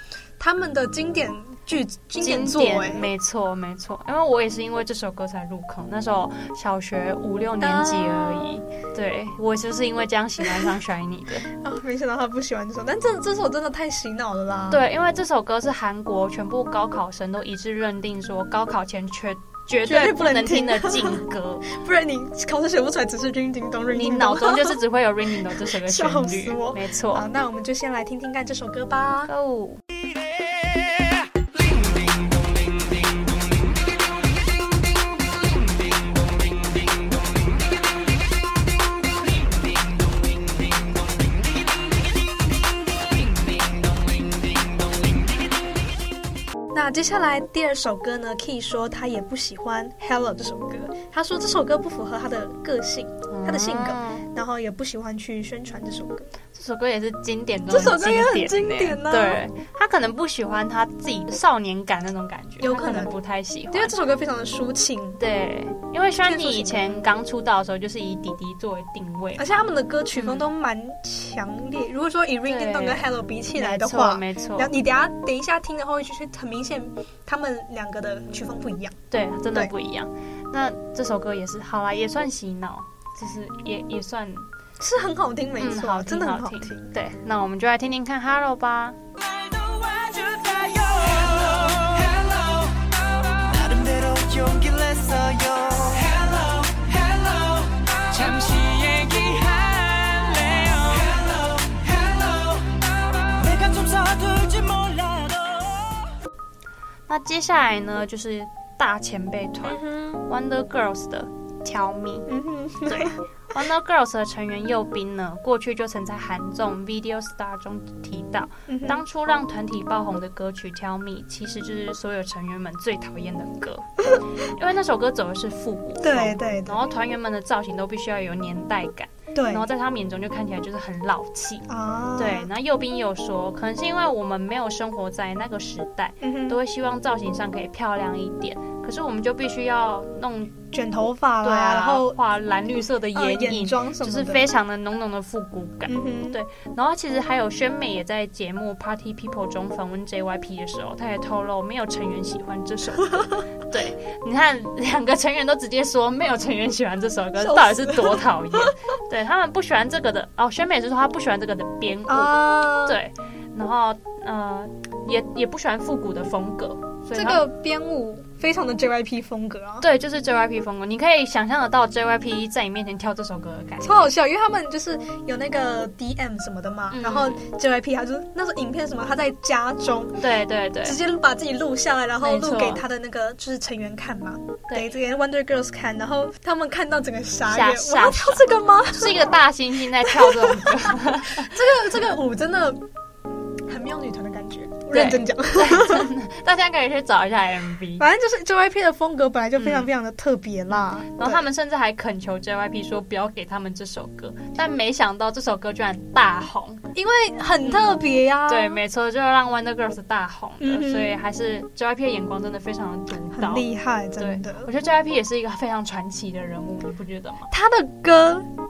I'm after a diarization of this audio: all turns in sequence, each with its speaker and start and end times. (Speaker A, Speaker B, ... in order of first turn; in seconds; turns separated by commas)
Speaker A: 0.4-3.1, Speaker B: 2.2-11.4, Speaker A: 7.6-8.6, Speaker A: 11.5-14.8, Speaker B: 14.7-21.6, Speaker A: 19.8-24.8, Speaker B: 23.9-27.2, Speaker A: 25.4-29.3, Speaker B: 29.3-29.8, Speaker C: 31.7-32.0, Speaker A: 46.7-56.3, Speaker B: 53.3-54.2, Speaker B: 56.5-63.9, Speaker A: 57.7-59.4, Speaker A: 62.6-63.1, Speaker A: 63.7-65.2, Speaker B: 65.2-69.5, Speaker A: 66.2-67.0, Speaker A: 69.4-79.0, Speaker B: 70.1-70.5, Speaker B: 72.4-73.0, Speaker B: 73.5-74.7, Speaker B: 79.1-84.5, Speaker A: 84.8-86.9, Speaker B: 85.6-89.0, Speaker C: 89.2-106.1, Speaker B: 107.1-112.3, Speaker A: 109.6-110.2, Speaker A: 112.3-113.2, Speaker B: 112.8-131.6, Speaker A: 118.7-119.0, Speaker A: 126.0-126.8, Speaker A: 129.3-129.7, Speaker A: 131.7-132.5, Speaker B: 132.2-140.6, Speaker A: 136.2-136.6, Speaker A: 140.7-142.2, Speaker B: 141.4-167.4, Speaker A: 143.1-144.5, Speaker A: 145.9-146.4, Speaker A: 157.4-158.2, Speaker A: 162.1-163.0, Speaker A: 167.1-169.8, Speaker B: 169.8-174.1, Speaker A: 173.8-180.2, Speaker B: 176.9-177.4, Speaker B: 180.2-181.0, Speaker A: 180.8-189.3, Speaker B: 182.2-182.8, Speaker B: 184.7-184.9, Speaker B: 187.5-191.5, Speaker A: 190.1-192.8, Speaker A: 193.7-196.1, Speaker B: 194.9-198.1, Speaker A: 198.0-201.4, Speaker B: 199.6-199.9, Speaker B: 200.8-206.8, Speaker A: 206.9-208.8, Speaker B: 207.7-207.9, Speaker B: 208.5-213.7, Speaker A: 210.6-211.2, Speaker A: 213.3-214.7, Speaker B: 214.2-217.5, Speaker A: 217.5-218.4